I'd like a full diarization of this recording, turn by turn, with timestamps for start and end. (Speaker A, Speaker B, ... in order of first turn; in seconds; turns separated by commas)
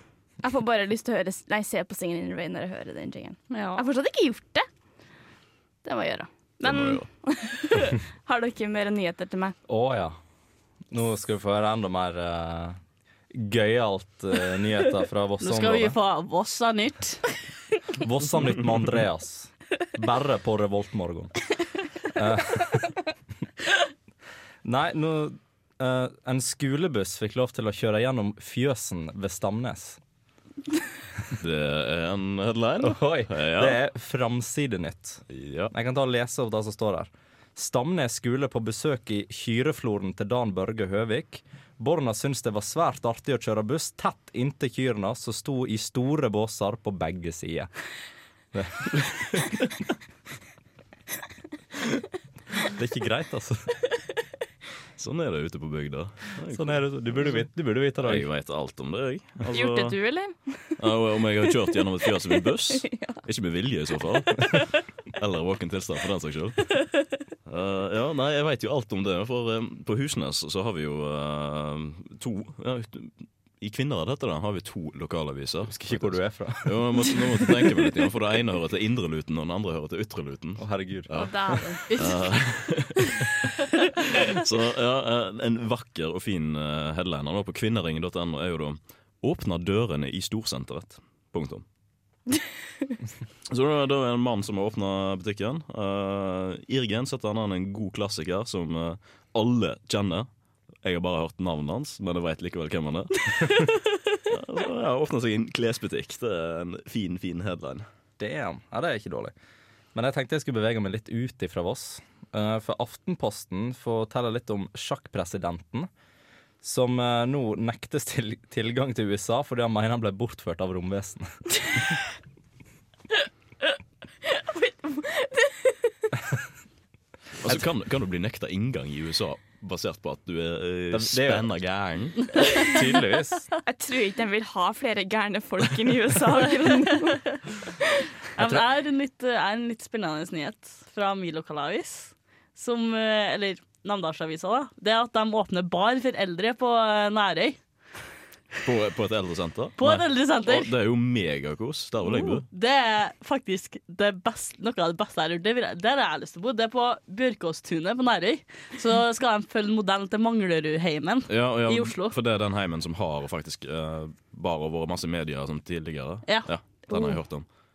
Speaker A: 0.4-4.7, Speaker B: 3.5-3.9, Speaker A: 5.9-9.6, Speaker C: 6.6-7.1, Speaker D: 9.7-10.2, Speaker D: 10.9-12.8, Speaker D: 13.3-16.0, Speaker B: 15.4-17.2, Speaker D: 17.9-21.4, Speaker D: 22.1-23.0, Speaker D: 24.6-30.0, Speaker C: 31.4-33.8, Speaker D: 32.8-47.7, Speaker C: 35.3-35.7, Speaker D: 48.5-49.5, Speaker D: 52.6-53.7, Speaker C: 55.0-57.4, Speaker D: 56.5-58.3, Speaker C: 58.0-60.0, Speaker A: 59.5-60.7, Speaker C: 60.8-66.7, Speaker A: 62.8-63.2, Speaker C: 67.5-81.3, Speaker D: 75.7-77.6, Speaker D: 80.6-81.6, Speaker A: 81.1-81.8, Speaker C: 81.9-83.3, Speaker B: 81.9-82.2, Speaker C: 84.1-91.6, Speaker C: 93.5-100.3, Speaker C: 100.8-103.7, Speaker C: 104.3-107.8, Speaker D: 108.2-109.3, Speaker D: 109.9-115.9, Speaker D: 116.6-121.4, Speaker A: 124.2-126.1, Speaker C: 127.4-132.3, Speaker D: 130.9-131.5, Speaker D: 132.4-133.5, Speaker A: 133.6-137.4, Speaker B: 138.4-147.6, Speaker D: 138.4-138.6, Speaker C: 148.6-152.5, Speaker B: 149.8-150.7, Speaker B: 152.1-162.1, Speaker C: 161.3-167.4, Speaker B: 166.2-167.0